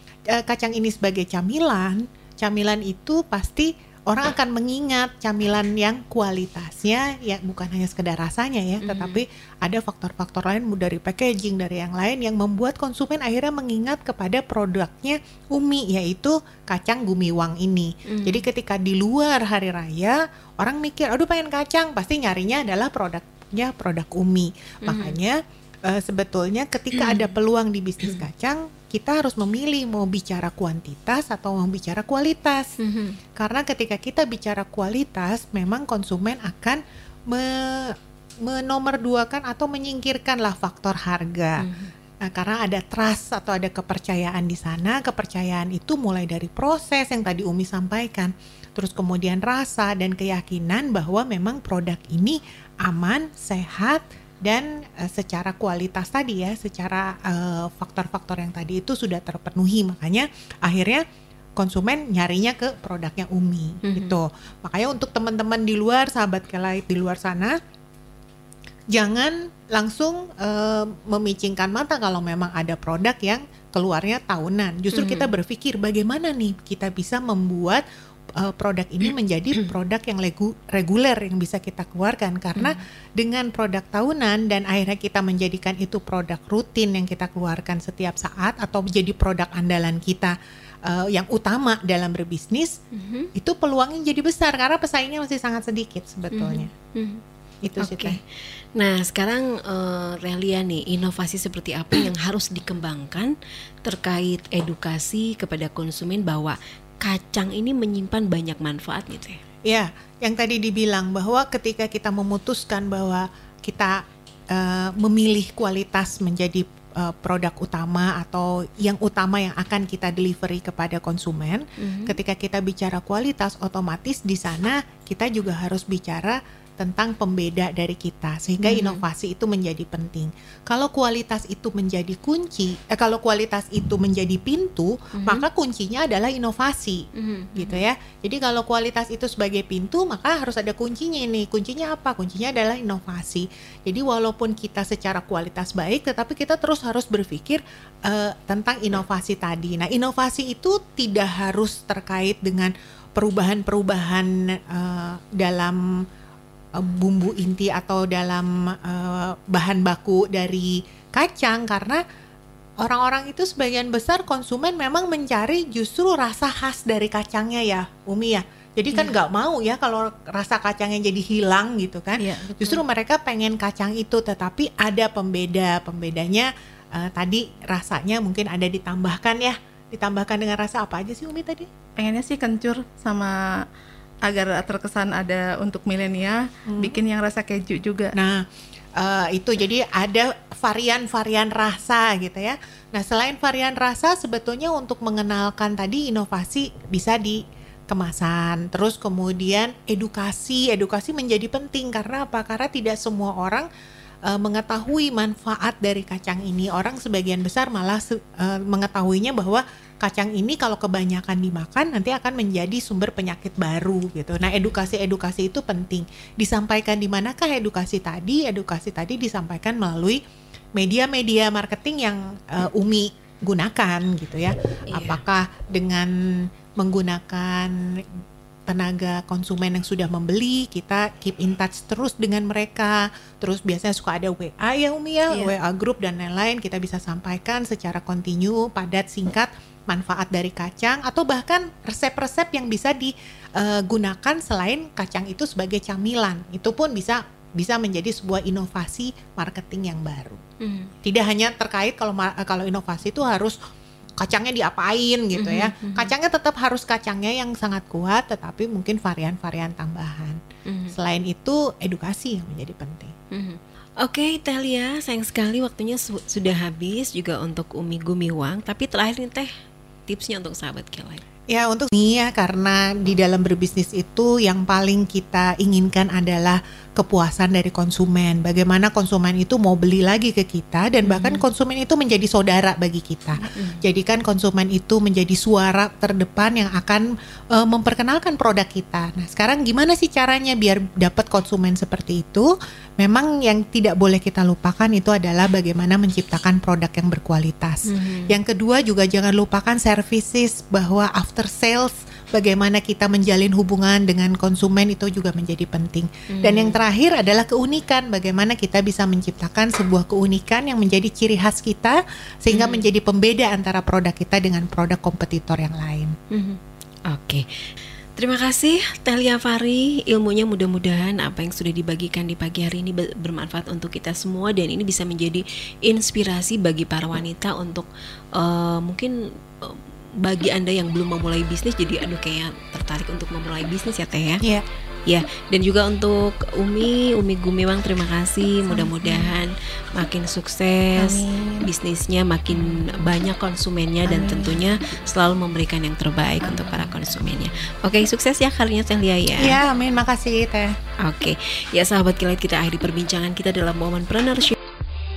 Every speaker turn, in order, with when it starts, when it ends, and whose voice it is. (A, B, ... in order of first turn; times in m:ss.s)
0:00.3-0:32.7 A
0:08.8-0:09.2 B
0:18.1-0:18.5 B
0:24.8-0:25.2 B
0:26.9-0:27.3 B
0:32.8-0:33.2 B
0:33.4-0:41.7 A
0:41.6-0:41.9 B
0:42.2-1:01.0 A
1:01.6-1:07.6 A
1:03.8-1:04.2 B
1:08.9-1:17.8 A
1:14.9-1:15.3 B
1:18.4-1:30.3 A
1:30.9-1:32.7 A
1:32.9-1:33.3 B
1:33.4-1:36.7 A
1:36.3-1:37.2 B
1:37.6-1:38.2 A
1:37.8-1:38.2 B
1:38.8-1:43.3 B
1:43.8-1:49.4 B
1:49.7-1:54.0 A
1:54.5-2:17.0 A
2:01.8-2:02.2 B
2:08.6-2:09.0 B
2:15.2-2:15.4 B
2:17.2-2:17.8 B
2:17.6-2:35.8 A
2:36.8-2:42.0 A
2:42.8-3:01.7 A
2:52.2-2:52.8 C
3:02.0-3:03.3 C
3:04.2-3:08.1 C
3:06.7-3:07.0 A
3:08.2-3:08.4 A
3:09.0-3:23.7 A
3:24.3-3:40.2 A
3:40.8-3:46.1 A
3:44.9-3:45.2 B
3:46.8-3:48.0 A
3:48.7-4:10.4 A
4:10.6-4:10.9 B
4:11.0-4:13.6 A
4:14.2-4:20.4 A
4:15.4-4:16.1 B
4:20.7-4:20.9 B
4:20.9-4:23.1 A
4:23.3-4:29.5 B
4:30.1-4:31.2 B
4:31.5-4:52.5 A
4:41.0-4:41.4 B
4:43.5-4:43.8 B
4:53.0-5:16.1 A
4:57.9-4:58.4 B
5:06.3-5:06.8 B
5:12.5-5:12.9 B
5:16.3-5:16.6 B
5:17.1-5:17.4 B
5:18.2-5:34.4 B
5:35.1-5:49.6 B
5:38.7-5:39.4 C
5:41.0-5:41.7 C
5:44.1-5:44.8 C
5:46.4-5:46.9 C
5:49.4-5:50.7 A
5:51.0-5:54.5 B